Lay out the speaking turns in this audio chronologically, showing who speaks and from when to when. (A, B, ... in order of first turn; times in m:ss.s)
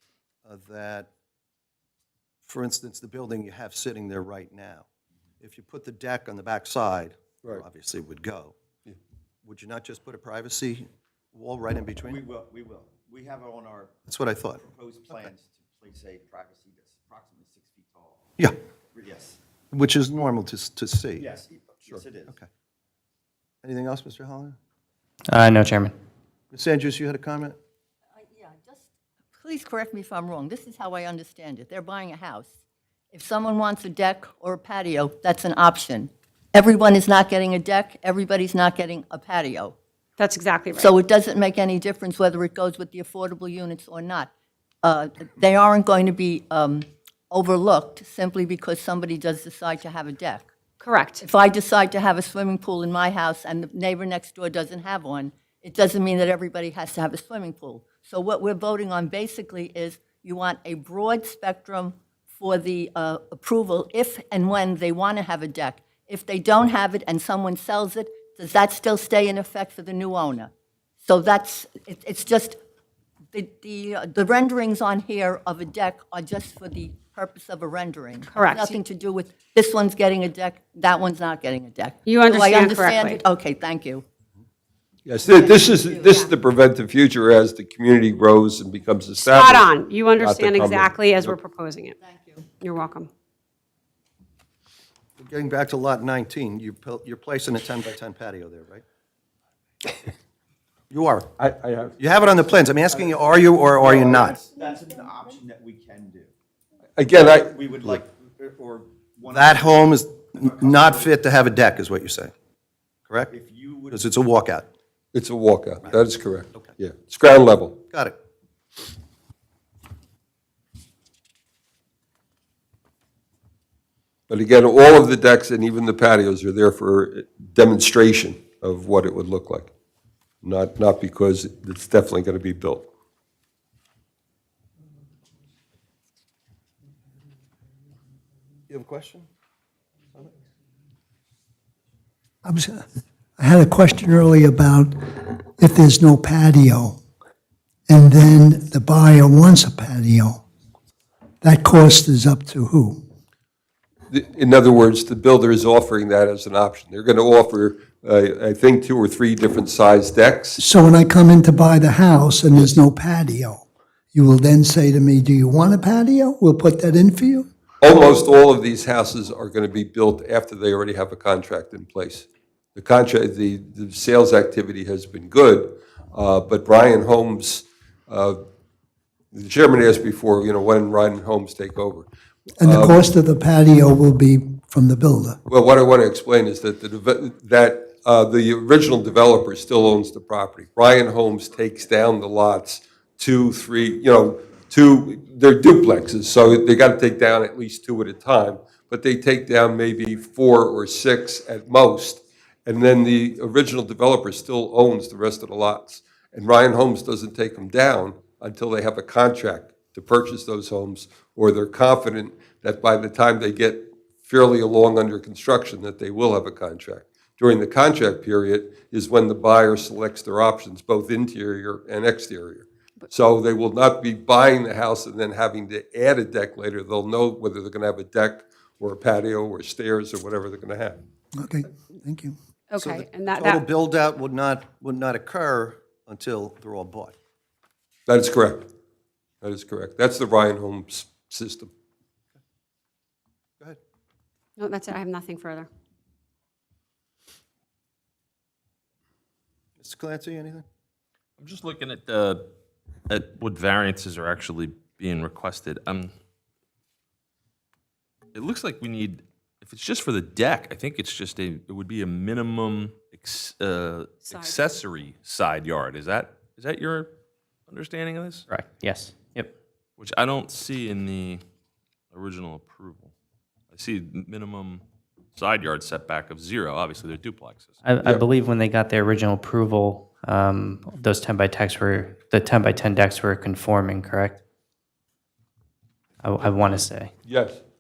0:00.4-0:01.1 A
0:02.4-0:04.9 A
0:05.4-0:08.6 A
0:09.4-0:12.2 A
0:12.0-0:14.0 B
0:14.1-0:15.3 A
0:14.6-0:18.2 B
0:19.0-0:19.4 B
0:19.7-0:21.3 A
0:21.2-0:22.3 B
0:23.6-0:24.6 A
0:25.3-0:26.0 C
0:26.5-0:27.6 A
0:28.2-0:32.6 D
0:33.1-0:39.8 D
0:40.2-0:40.9 E
0:40.7-0:44.3 D
0:44.8-0:50.5 D
0:50.8-0:51.2 E
0:51.2-1:10.5 D
1:11.0-1:12.6 D
1:13.3-1:24.0 D
1:18.4-1:18.7 E
1:22.1-1:23.2 E
1:25.1-1:31.4 F
1:25.2-1:26.3 D
1:29.2-1:32.0 E
1:32.0-1:32.4 D
1:32.6-1:33.1 E
1:35.2-1:38.8 A
1:40.9-1:41.3 A
1:41.4-1:42.0 F
1:42.0-1:44.4 A
1:42.9-1:46.3 B
1:47.0-1:47.5 F
1:47.1-1:51.2 B
1:49.3-1:52.3 A
1:53.3-1:54.1 B
1:53.9-1:54.7 A
1:55.1-1:57.8 F
1:55.8-1:56.8 A
1:57.9-1:58.2 A
2:04.3-2:09.7 F
2:10.4-2:12.9 F
2:18.7-2:19.3 A
2:22.4-2:22.8 G
2:23.4-2:27.0 G
2:27.9-2:30.4 G
2:31.4-2:33.0 G
2:34.1-2:40.6 F
2:40.6-2:47.5 G
2:47.8-2:58.4 F
2:59.3-3:02.1 F
3:02.6-3:05.4 G
3:02.6-3:03.0 F
3:05.5-3:51.0 F
3:51.4-3:52.4 G
3:52.7-3:53.6 E
3:52.8-3:57.2 A
3:58.1-3:58.7 F
3:59.4-4:01.7 F
4:04.6-4:05.7 E
4:09.8-4:10.6 A
4:11.4-4:12.4 H
4:13.1-4:16.1 H
4:18.3-4:27.1 H
4:27.7-4:28.5 H
4:28.5-4:29.5 C
4:30.0-4:31.4 H
4:32.1-4:33.1 H
4:33.7-4:37.8 H
4:37.8-4:44.4 C
4:46.2-4:47.1 C
4:47.3-4:47.6 F